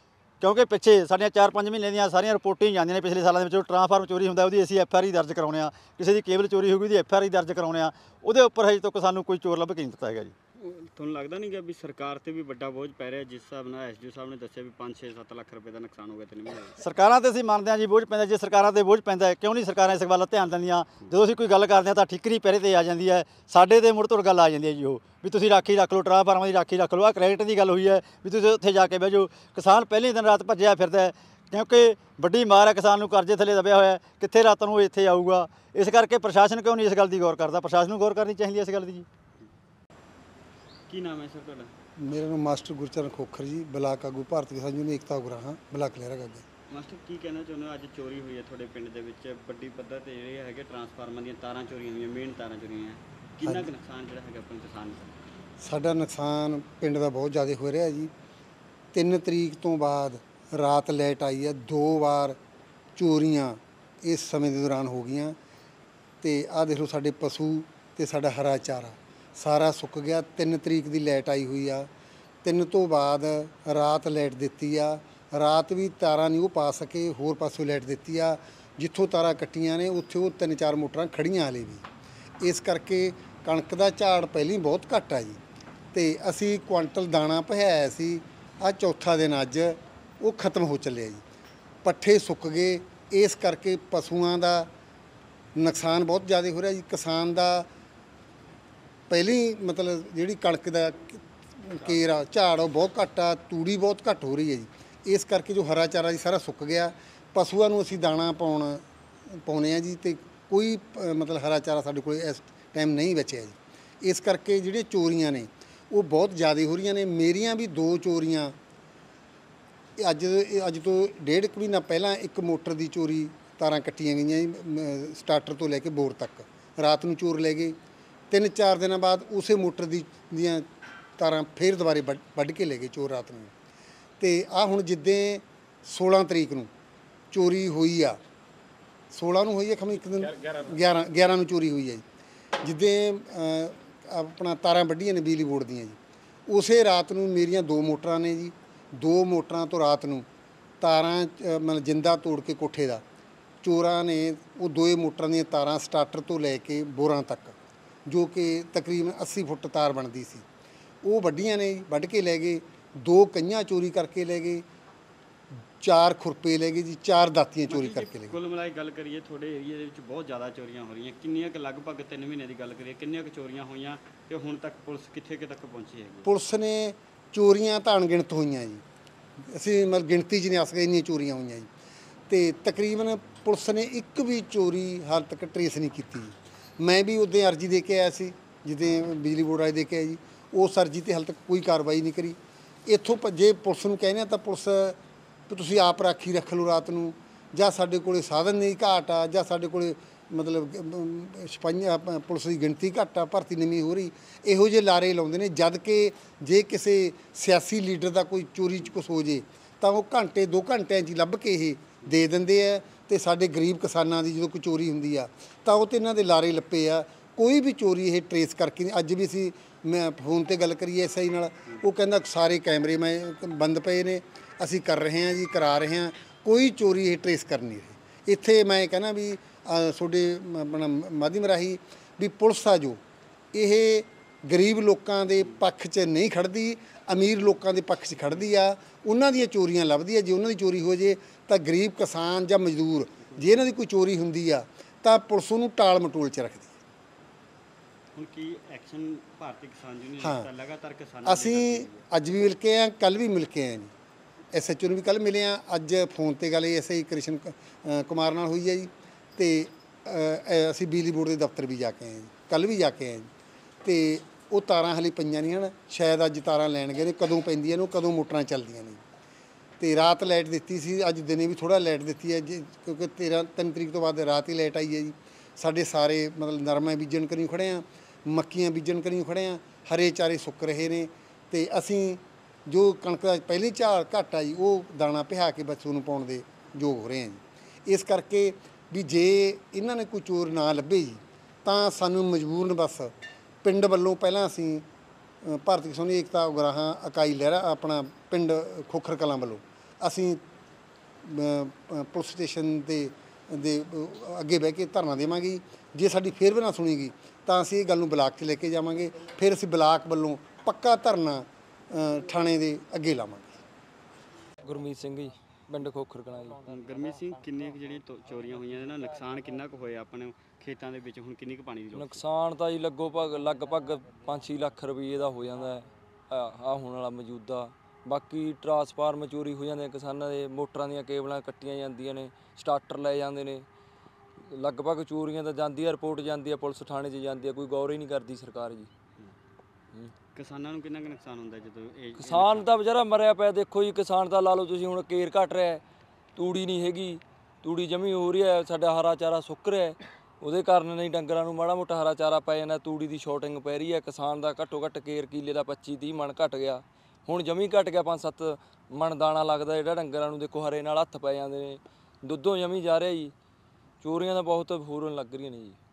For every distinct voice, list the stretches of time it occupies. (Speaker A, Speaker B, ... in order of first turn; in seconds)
Speaker A: 0.4-10.3, 16.8-39.0
Speaker B: 10.6-16.8, 40.9-41.7, 46.7-55.3, 167.7-176.2, 248.1-252.0, 316.7-322.2, 340.3-342.7
Speaker C: 42.0-46.4, 55.6-58.1, 58.9-62.4, 63.0-65.3, 66.2-71.9, 72.4-81.8, 82.4-85.4, 85.9-91.2, 91.8-94.7, 95.5-97.7, 99.1-108.8, 109.3-118.5, 120.0-127.8, 128.3-130.7, 131.2-133.5, 134.2-136.7, 137.3-138.2, 139.1-142.0, 142.6-146.0, 146.5-150.2, 150.8-153.0, 153.6-157.6, 158.1-160.4, 161.0-164.6, 165.8-168.3, 176.2-178.8, 179.5-181.7, 182.3-195.0, 195.5-233.0, 233.5-246.8, 250.2-250.5, 251.2-253.9, 254.5-263.3, 263.8-269.0, 269.8-293.1, 293.6-294.8, 295.4-300.4, 301.2-313.6
Speaker D: 314.6-316.7, 321.9-333.6, 334.5-338.9, 342.1-345.8, 346.4-363.3, 364.0-365.8